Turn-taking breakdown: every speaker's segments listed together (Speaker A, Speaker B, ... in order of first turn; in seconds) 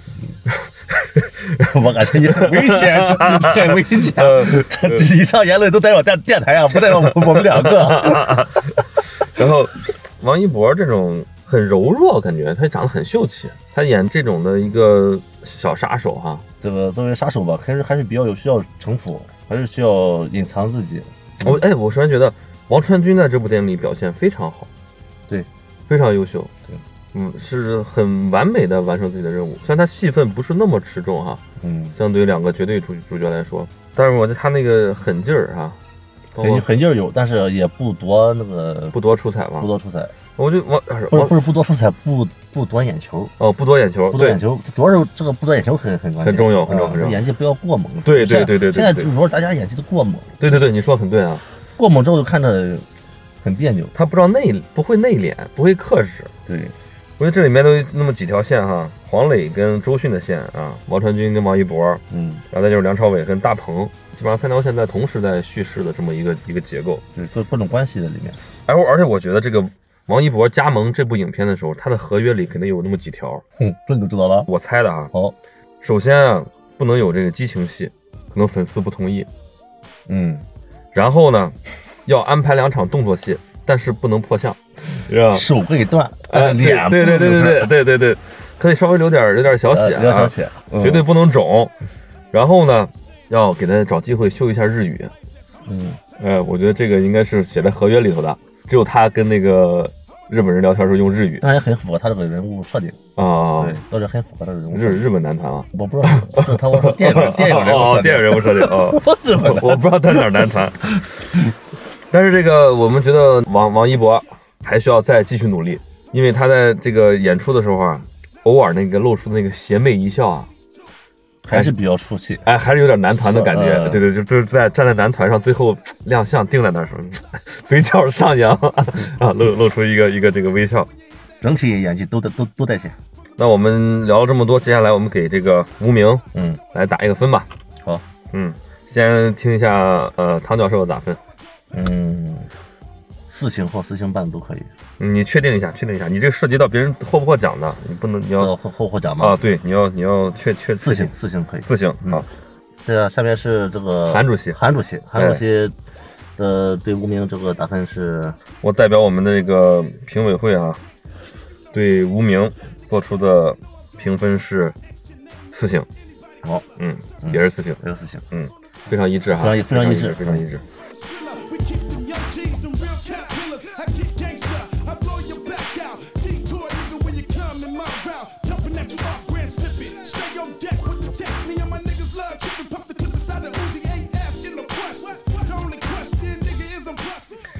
Speaker A: 0.5-5.1, 6.8-16.4, 21.4-24.7, 25.9-26.5, 27.1-31.4, 32.0-35.8, 36.3-36.6, 38.9-39.7, 40.4-41.4, 43.4-44.4, 46.2-47.2, 48.0-49.1, 50.4-51.4, 53.9-56.3, 57.2-67.0, 68.7-73.4, 74.5-75.1, 75.8-79.3, 80.9-85.5, 86.3-91.7, 92.3-95.1, 96.2-101.4, 103.2-103.8, 104.7-111.1, 112.1-120.5, 122.4-130.9, 133.4-137.5, 138.3-141.2, 145.0-148.5, 149.2-151.1, 151.6-152.3, 154.1-154.6, 155.2-155.4, 158.6-160.8, 161.7-164.8, 165.5-165.9, 166.8-167.8, 168.3-170.6
Speaker B: 1.6-8.5, 16.6-21.6, 31.6-32.0, 36.4-39.0, 39.6-40.1, 41.1-43.3, 44.1-50.6, 51.8-52.9, 53.4-53.9, 56.5-56.7, 62.1-62.4, 67.1-68.4, 73.6-74.5, 80.1-80.4, 85.3-87.7, 89.7-91.1, 95.7-96.0, 101.4-103.0, 103.6-105.1, 105.7-111.5, 121.4-122.5, 123.2-124.0, 131.4-133.0, 136.3-136.6, 141.7-142.5, 143.3-144.7, 148.4-149.4, 150.8-152.3, 152.8-155.8, 156.4-158.4, 167.2-168.2, 169.4-170.5
Speaker C: 170.8-187.4